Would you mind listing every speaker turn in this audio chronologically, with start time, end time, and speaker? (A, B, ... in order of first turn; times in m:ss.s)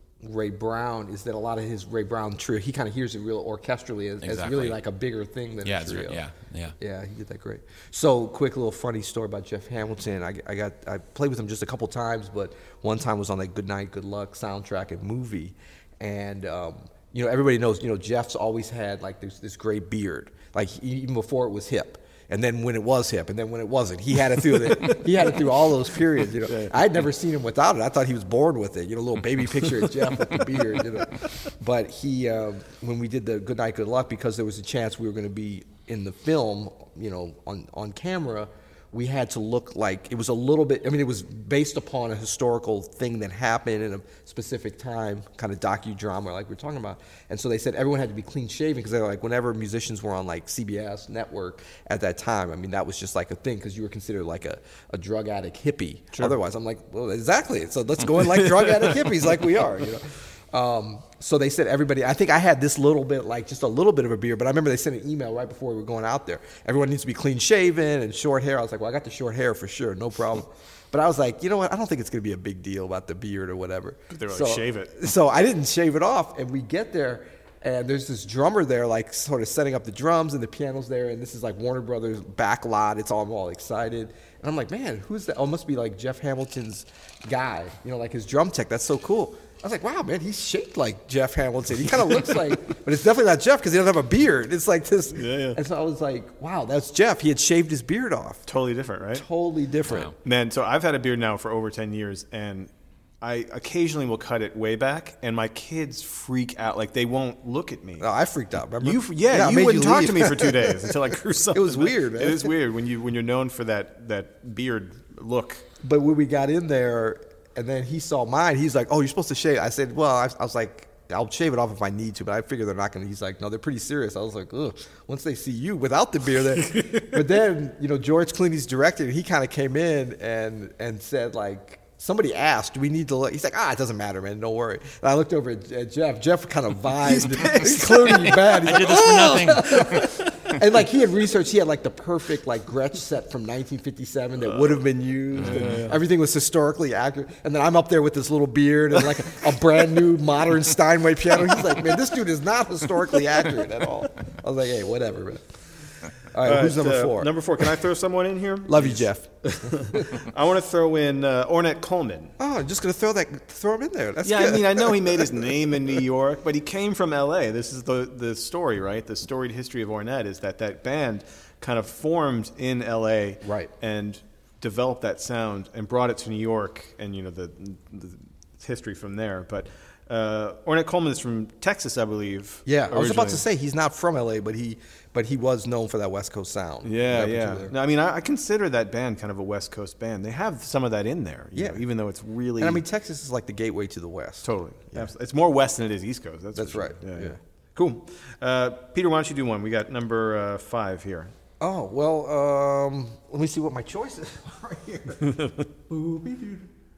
0:00.2-0:06.2 A
0:04.2-0:04.8 B
0:05.6-0:06.8 B
0:06.8-1:38.5 A
0:24.4-0:25.7 C
0:26.4-0:26.8 C
0:58.2-0:59.0 C
1:14.1-1:14.9 C
1:35.1-1:35.6 C
1:38.4-1:39.2 C
1:39.1-1:40.1 A
1:39.9-1:40.1 B
1:40.2-1:42.7 C
1:43.2-1:48.1 C
1:48.0-1:50.9 A
1:48.8-1:55.6 C
1:51.5-1:52.5 A
1:55.8-2:35.4 A
2:06.7-2:07.0 C
2:16.9-2:18.6 C
2:17.6-2:20.6 B
2:25.4-2:26.0 C
2:25.4-2:25.9 B
2:36.3-2:37.7 A
2:36.4-2:42.3 C
2:38.6-2:40.1 A
2:42.4-2:45.8 A
2:44.2-3:03.4 C
2:53.4-2:53.7 A
3:02.6-3:07.7 A
3:06.8-3:12.8 C
3:11.5-3:11.8 A
3:12.6-3:15.1 A
3:14.4-3:21.3 C
3:16.5-3:17.4 A
3:21.6-3:25.3 A
3:25.3-3:25.6 C
3:25.9-3:26.7 A